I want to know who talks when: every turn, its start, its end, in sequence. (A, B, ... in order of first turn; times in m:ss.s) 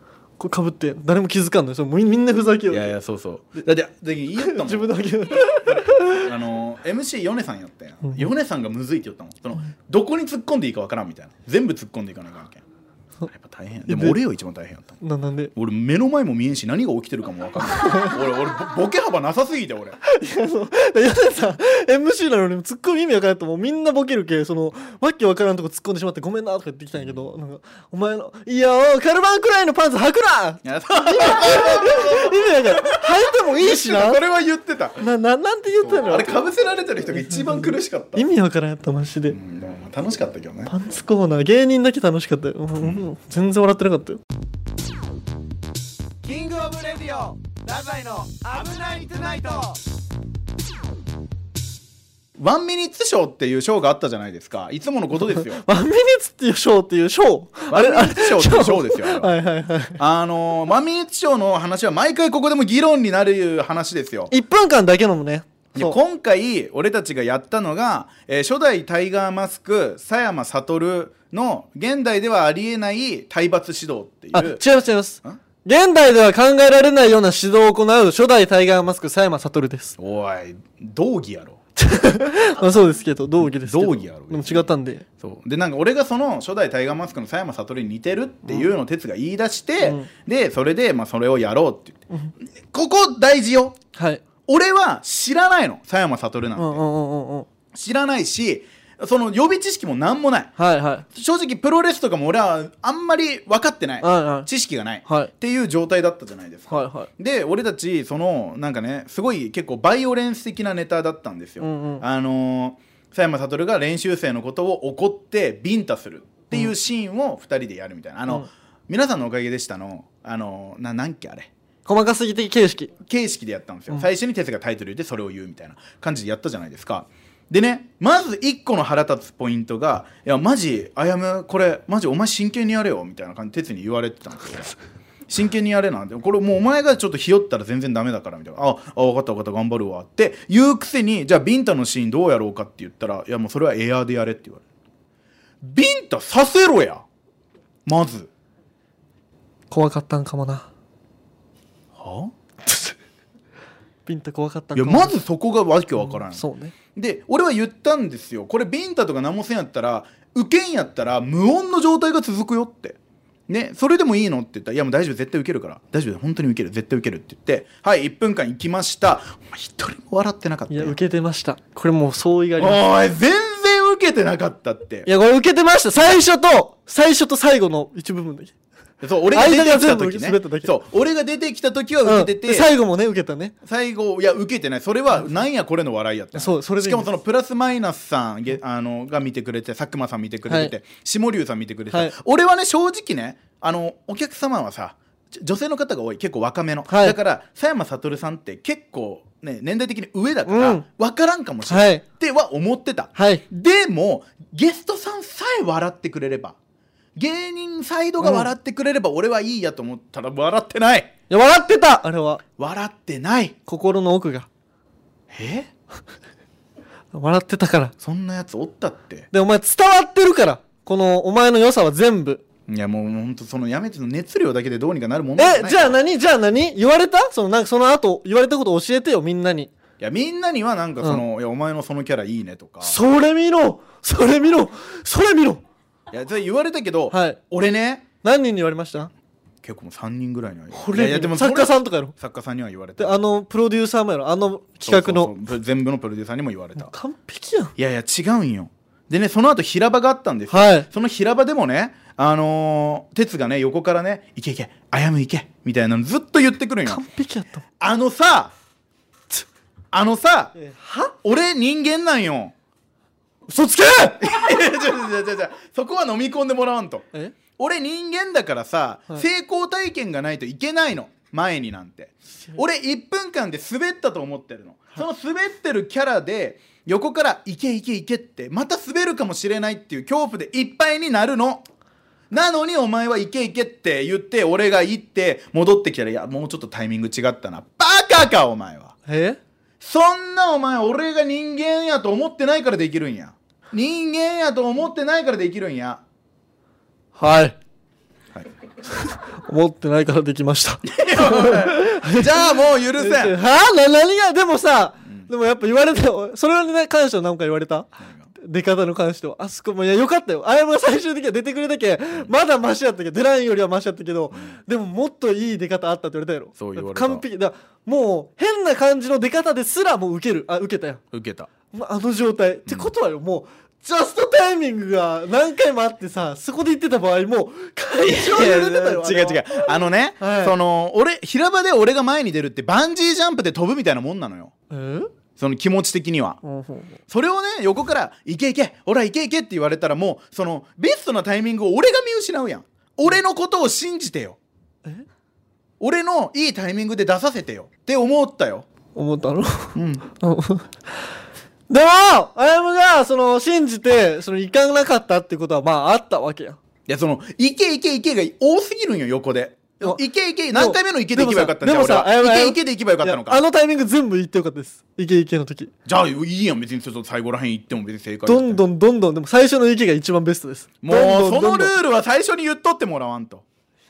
0:00.4-0:03.0 A
0:02.7-0:12.6 B
0:04.4-0:06.3 A
0:08.0-0:08.3 A
0:13.3-0:15.0 B
0:13.9-0:14.2 A
0:15.0-0:15.5 A
0:15.6-0:20.0 B
0:17.6-0:18.2 A
0:20.0-0:34.2 A
0:27.0-0:27.2 B
0:30.6-0:35.0 B
0:35.0-0:36.4 A
0:35.8-0:38.2 B
0:37.1-0:39.4 A
0:39.3-0:40.7 B
0:40.7-0:44.2 A
0:46.2-0:49.8 C
0:52.4-0:55.6 B
0:55.3-1:00.0 A
0:57.7-0:59.3 B
1:00.0-1:04.3 B
1:04.3-1:06.0 A
1:05.7-1:14.6 B
1:14.3-1:20.0 A
1:20.0-1:21.6 B
1:21.8-1:25.0 A
1:23.4-1:24.7 B
1:25.2-1:32.0 B
1:29.8-1:30.1 A
1:32.6-1:33.8 B
1:34.0-1:34.2 A
1:34.5-1:36.8 B
1:36.6-1:37.5 A
1:37.7-1:40.5 B
1:40.6-1:41.0 A
1:41.1-2:01.5 B
1:44.0-1:44.5 A
1:45.1-1:45.3 A
1:46.7-1:47.1 A
1:51.6-1:52.0 A
2:01.9-2:02.9 A
2:03.0-2:14.8 B
2:15.3-2:24.6 B
2:25.6-2:27.0 B
2:27.9-2:28.3 B
2:29.7-2:30.7 A
2:32.0-2:32.3 B
2:32.6-2:33.0 A
2:34.1-2:35.2 A
2:34.8-2:43.0 B
2:36.0-2:36.8 A
2:43.5-2:51.0 B
2:50.7-2:52.8 A
2:52.6-2:55.1 B
2:55.1-2:58.5 A
2:59.0-3:02.7 B
2:59.3-3:00.7 A
3:02.0-3:03.5 A
3:03.6-3:26.6 B
3:06.4-3:07.1 A
3:10.5-3:10.7 A
3:16.9-3:17.2 A
3:20.5-3:20.8 A
3:21.7-3:22.0 A
3:23.2-3:23.4 A
3:27.2-3:31.1 B
3:28.2-3:28.5 A
3:31.3-3:32.4 A
3:32.6-3:33.6 B
3:33.7-3:34.5 A
3:35.3-3:35.7 B
3:37.1-3:37.9 A
3:38.0-3:39.3 B
3:39.3-3:42.4 A
3:42.7-3:46.0 B
3:45.4-3:49.7 A
3:50.0-3:53.0 B
3:52.8-3:55.6 A
3:56.1-3:58.1 B
3:57.1-3:57.4 A
3:58.2-3:59.1 A
3:59.6-4:03.2 B
4:00.7-4:02.1 A
4:03.0-4:05.3 A
4:04.8-4:06.9 B
4:06.8-4:07.7 A
4:07.8-4:17.0 B
4:10.5-4:10.9 A
4:16.9-4:17.6 A
4:17.8-4:18.5 B
4:19.9-4:20.5 B
4:20.6-4:21.1 A
4:21.2-4:22.5 B
4:23.5-4:24.3 A
4:24.2-4:41.7 B
4:42.3-4:49.0 B
4:49.1-4:49.4 A
4:49.8-4:56.0 B
4:57.2-4:57.6 A
4:58.9-5:21.0 A
5:00.9-5:03.4 B
5:16.6-5:17.2 B
5:21.1-5:21.5 B
5:21.7-5:30.6 A
5:22.7-5:22.9 B
5:28.0-5:34.5 B
5:34.7-5:35.1 A
5:35.4-5:36.4 B
5:36.4-5:37.0 A
5:37.1-5:44.4 B
5:45.8-5:48.7 B
5:49.0-5:50.8 A
5:49.8-5:50.1 B
5:51.7-5:56.6 A
5:56.9-6:03.4 B
6:00.5-6:05.7 A
6:05.8-6:08.6 B
6:08.3-6:11.8 A
6:10.8-6:13.4 B